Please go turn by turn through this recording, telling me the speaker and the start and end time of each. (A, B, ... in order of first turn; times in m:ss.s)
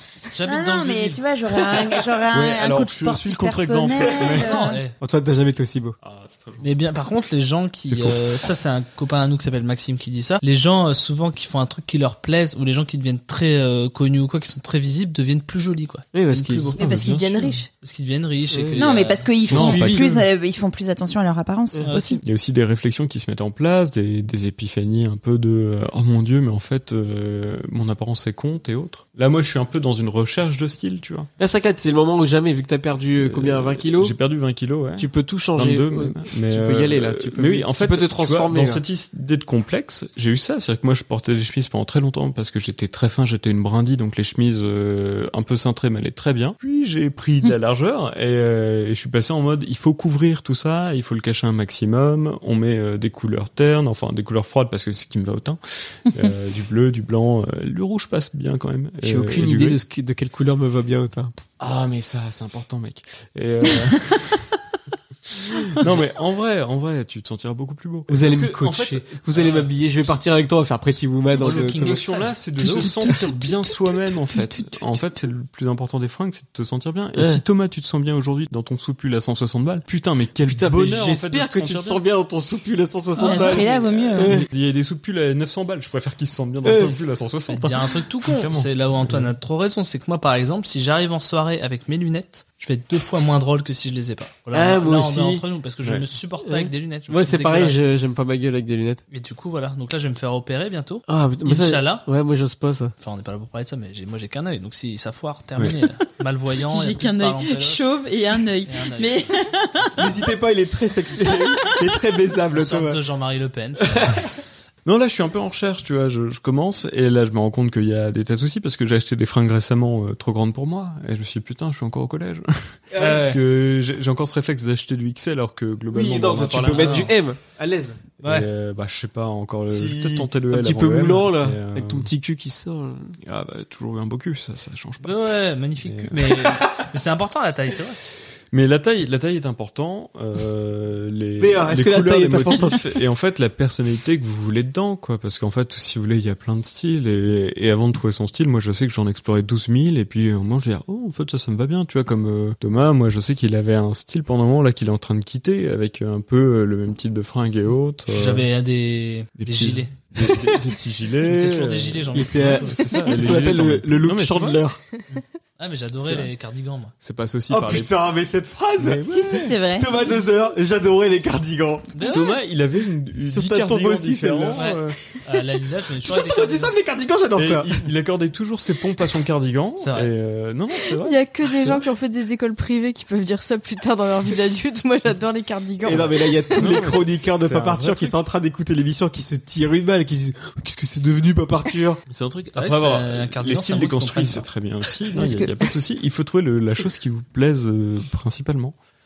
0:00.3-0:01.2 A
0:00.4-0:04.8 B
0:02.3-0:04.8 C
0:04.2-0:05.0 A
0:05.0-0:06.0 D
0:06.0-0:06.7 C
0:06.6-0:19.3 A
0:07.9-0:08.2 D
0:16.1-0:16.7 D
0:16.8-0:17.7 E
0:16.8-0:17.5 C
0:18.5-0:18.8 D
0:18.8-0:22.2 B
0:19.5-0:20.0 D
0:19.5-0:20.2 C
0:21.8-0:22.2 A
0:22.2-0:31.3 C
0:31.4-0:34.1 D
0:33.0-0:59.8 C
0:35.0-0:38.8 D
0:59.0-1:01.4 D
1:01.6-1:04.6 C
1:05.3-1:09.6 C
1:08.1-1:12.0 D
1:09.4-1:09.6 A
1:11.3-1:22.0 C
1:11.4-1:13.3 A
1:12.6-1:13.3 D
1:17.2-1:17.4 D
1:20.5-1:24.5 D
1:23.2-1:24.4 B
1:23.5-1:29.3 C
1:26.6-1:27.0 D
1:27.5-1:37.8 A
1:34.5-1:35.4 D
1:36.4-1:39.0 D
1:39.1-1:42.0 A
1:41.1-1:42.9 D
1:43.0-1:47.8 A
1:46.7-1:50.2 B
1:48.6-1:50.2 A
1:50.0-1:53.0 D
1:52.5-1:54.2 A
1:54.8-2:07.2 C
2:02.9-2:03.2 D
2:03.0-2:03.4 A
2:05.9-2:08.1 D
2:06.7-2:07.1 A
2:08.2-2:08.5 A
2:08.2-2:12.1 C
2:09.7-2:13.1 D
2:13.2-2:16.6 C
2:15.0-2:18.0 A
2:18.5-2:38.5 C
2:21.4-2:23.0 D
2:38.1-2:39.9 A
2:39.4-2:44.6 C
2:40.2-2:40.7 D
2:41.2-2:43.4 A
2:42.1-2:44.8 D
2:45.1-2:46.9 A
2:46.0-2:46.3 C
2:47.0-2:48.0 C
2:47.5-2:51.9 D
2:49.0-2:50.2 B
2:51.9-2:52.4 A
2:52.0-2:55.0 C
2:53.2-2:54.7 D
2:54.5-2:56.7 A
2:56.0-2:57.7 D
2:57.4-3:01.2 C
2:59.8-3:00.1 A
3:01.0-3:06.7 E
3:05.8-3:12.0 D
3:06.5-3:08.2 C
3:12.1-3:18.8 C
3:12.5-3:14.4 A
3:15.1-3:15.6 E